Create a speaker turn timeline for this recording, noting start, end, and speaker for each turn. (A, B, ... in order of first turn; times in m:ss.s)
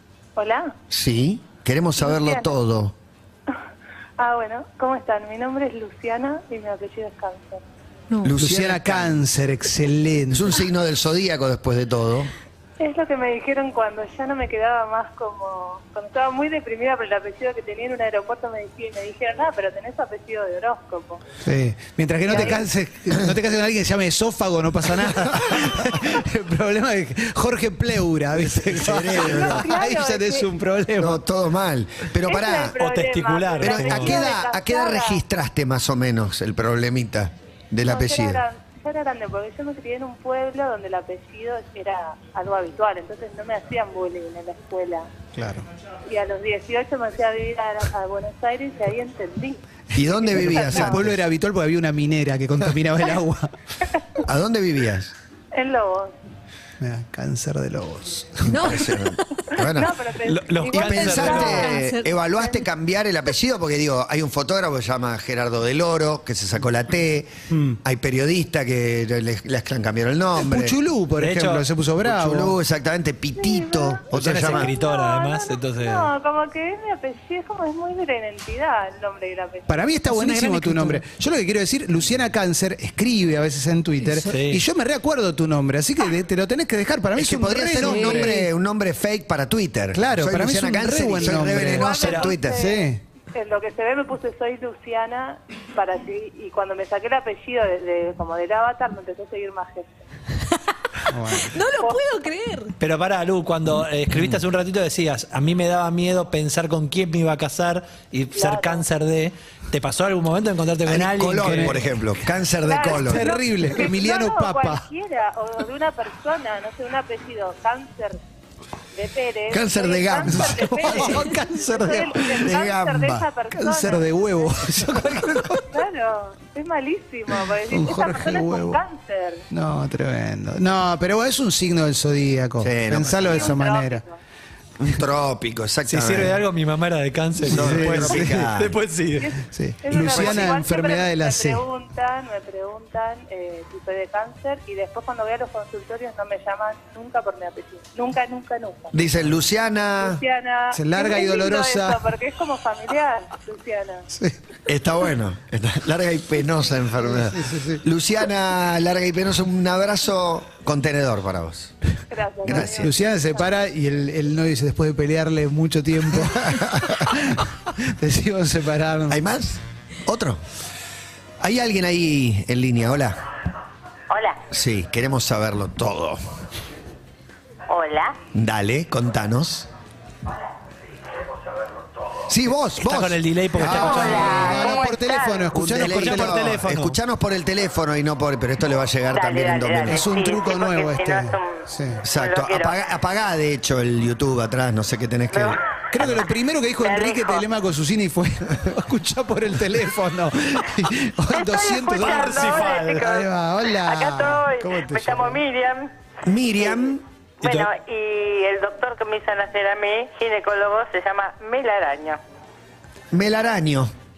0:00.4-0:00.7 A
0:00.9-0:02.9 B
0:02.0-0:02.5 A
0:04.2-0:07.6 A
0:08.2-0:09.2 B
0:08.4-0:10.5 C
0:10.3-0:12.3 B
0:12.8-0:21.2 A
0:21.4-0:31.2 C
0:22.3-0:22.6 A
0:28.4-0:29.7 B
0:29.2-0:30.5 A
0:31.0-0:32.8 B
0:32.2-0:35.2 A
0:32.7-0:34.3 D
0:33.6-0:38.4 B
0:37.8-0:45.1 A
0:45.4-0:45.6 C
0:46.1-0:49.6 A
0:49.9-0:51.2 B
0:50.1-0:50.9 A
0:50.3-0:53.5 C
0:54.2-0:55.1 B
0:55.5-0:56.1 A
0:56.8-0:58.6 C
0:58.5-0:59.2 E
0:58.5-0:59.9 B
0:59.6-1:01.7 A
1:00.2-1:01.7 D
1:00.7-1:07.3 B
1:01.2-1:02.4 E
1:07.5-1:07.8 C
1:07.8-1:10.8 B
1:10.4-1:12.5 C
1:11.2-1:11.6 D
1:12.0-1:14.7 B
1:13.4-1:14.0 A
1:14.1-1:16.1 D
1:14.4-1:14.6 C
1:14.6-1:19.8 A
1:19.7-1:28.5 C
1:20.1-1:21.0 E
1:24.1-1:24.6 D
1:27.1-1:32.6 B
1:27.8-1:28.4 E
1:29.9-1:33.0 C
1:31.6-1:39.9 A
1:31.9-1:32.4 D
1:41.1-1:41.6 C
1:41.4-1:42.7 E
1:42.8-1:51.8 D
1:48.3-1:48.8 A
1:50.8-1:53.3 B
1:51.4-1:51.8 C
1:52.6-1:58.2 A
1:52.8-1:54.8 C
1:59.0-2:04.6 A
1:59.5-2:03.2 B
2:00.3-2:02.3 C
2:03.5-2:05.6 C
2:05.7-2:09.4 A
2:07.7-2:08.8 C
2:09.5-2:14.0 C
2:12.6-2:13.6 B
2:13.1-2:14.2 A
2:14.8-2:16.4 B
2:15.9-2:19.3 D
2:17.4-2:18.4 C
2:17.5-2:18.8 B
2:19.2-2:28.9 A
2:19.5-2:21.6 C
2:20.0-2:20.5 B
2:28.9-2:30.2 B
2:30.0-2:34.1 A
2:30.7-2:32.0 C
2:34.7-2:41.7 B
2:37.3-2:37.8 C
2:42.1-2:43.5 A
2:42.4-2:42.9 B
2:42.6-2:47.4 C
2:46.5-2:46.9 B
2:48.0-2:49.2 C
2:49.1-2:50.4 B
2:51.4-2:53.2 B
2:54.1-2:54.4 F
2:54.5-2:56.2 B
2:57.7-2:58.2 F
2:58.3-2:59.7 B
3:02.3-3:04.8 B
3:02.8-3:04.5 D
3:03.6-3:06.4 C
3:03.9-3:05.5 F
3:05.5-3:10.1 B
3:05.8-3:07.0 D
3:09.1-3:12.7 F
3:09.8-3:12.0 C
3:12.0-3:15.6 B
3:15.3-3:15.6 F
3:15.9-3:25.4 C
3:16.8-3:17.4 F
3:21.3-3:25.9 F
3:21.9-3:23.1 D
3:26.2-3:27.0 B
3:26.6-3:26.9 F
3:27.4-3:27.7 D
3:27.4-3:32.2 F
3:33.1-3:33.9 B